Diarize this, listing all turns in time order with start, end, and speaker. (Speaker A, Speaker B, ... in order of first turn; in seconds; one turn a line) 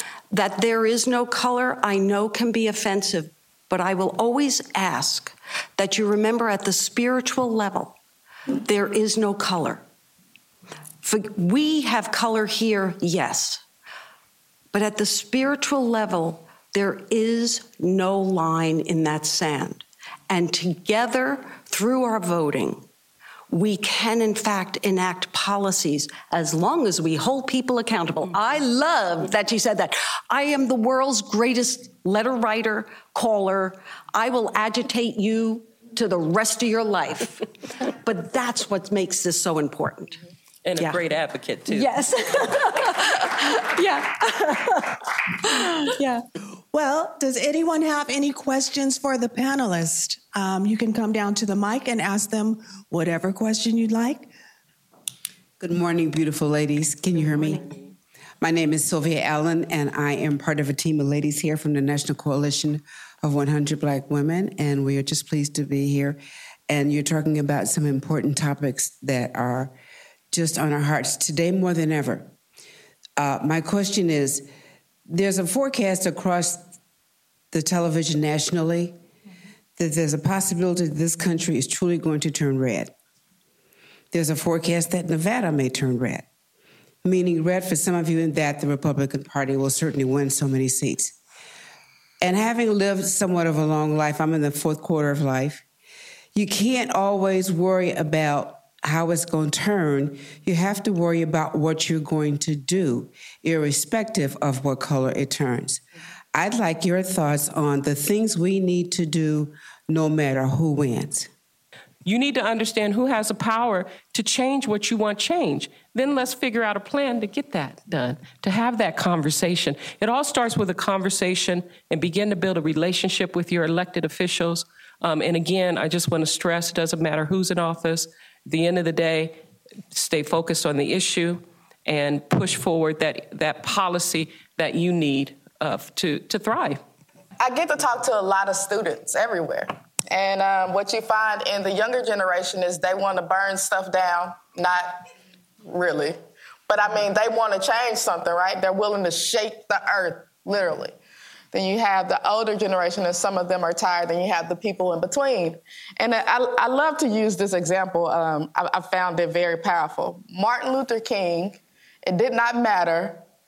Speaker A: 0.3-8.0
Speaker A: 8.6-9.8
Speaker A: 11.0-13.6
Speaker A: 14.7-22.9
Speaker A: 23.5-37.5
Speaker A: 38.0-40.2
Speaker B: 40.6-41.9
Speaker A: 41.7-46.2
Speaker C: 46.7-54.3
Speaker D: 55.6-57.8
Speaker D: 58.4-69.7
Speaker D: 70.3-72.3
Speaker D: 73.2-74.5
Speaker D: 75.1-76.7
Speaker D: 77.5-79.0
Speaker D: 79.8-82.9
Speaker D: 84.1-86.2
Speaker D: 87.0-91.1
Speaker D: 92.2-95.6
Speaker D: 96.3-105.8
Speaker D: 106.3-111.3
Speaker B: 112.0-129.4
Speaker B: 129.9-136.8
Speaker E: 137.4-145.0
Speaker E: 145.6-146.2
Speaker E: 146.7-151.0
Speaker E: 151.5-163.2